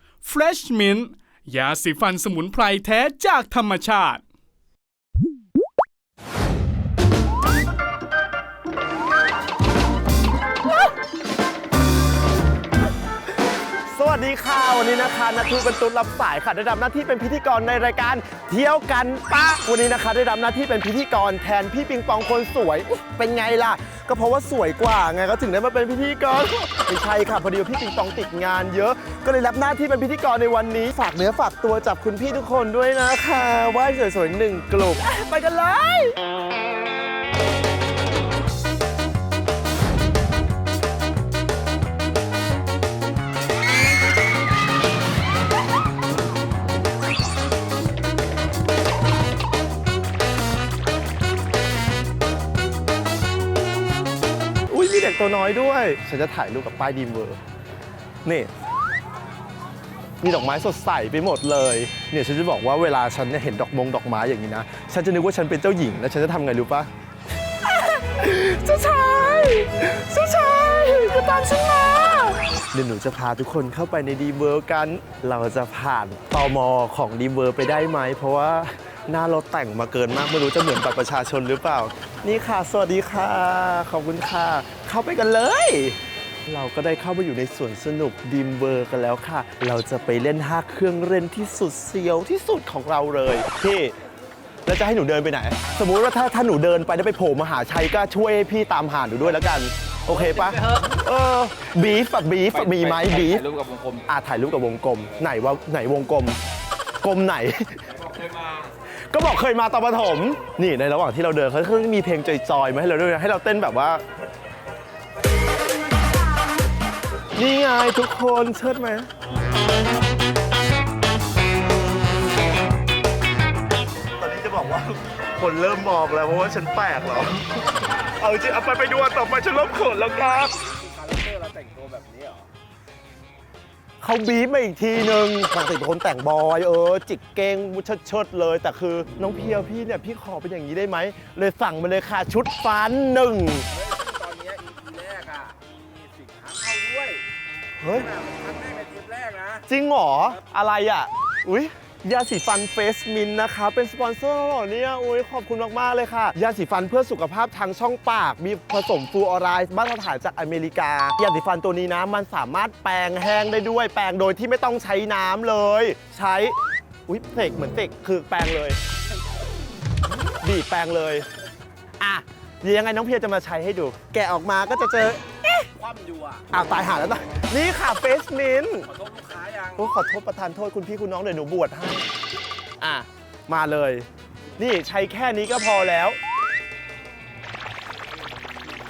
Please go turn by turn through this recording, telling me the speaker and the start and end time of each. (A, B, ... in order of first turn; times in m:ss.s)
0:00.2-0:04.2 A
0:13.9-0:36.2 B
0:54.7-0:57.4 B
0:58.2-0:58.5 B
1:00.2-1:06.9 B
1:07.6-1:33.9 B
1:34.6-1:43.4 B
1:40.2-1:40.8 C
1:42.5-1:44.0 C
1:44.1-1:46.4 B
1:47.0-1:47.8 B
1:48.0-1:48.7 C
1:49.1-1:54.0 B
1:57.4-1:59.1 B
2:04.2-2:07.4 B
2:08.0-2:10.5 B
2:10.6-2:12.5 C
2:14.0-2:23.7 B
2:23.7-2:27.2 C
2:27.8-2:28.1 B
2:27.9-2:29.6 C
2:29.7-2:46.5 B
2:47.1-2:48.8 B
2:50.4-2:51.2 B
2:52.0-2:55.7 B
2:55.8-2:56.4 C
2:56.5-2:58.9 B
2:58.9-2:59.8 C
2:59.8-3:02.1 B
3:02.8-3:04.1 B
3:04.6-3:06.2 B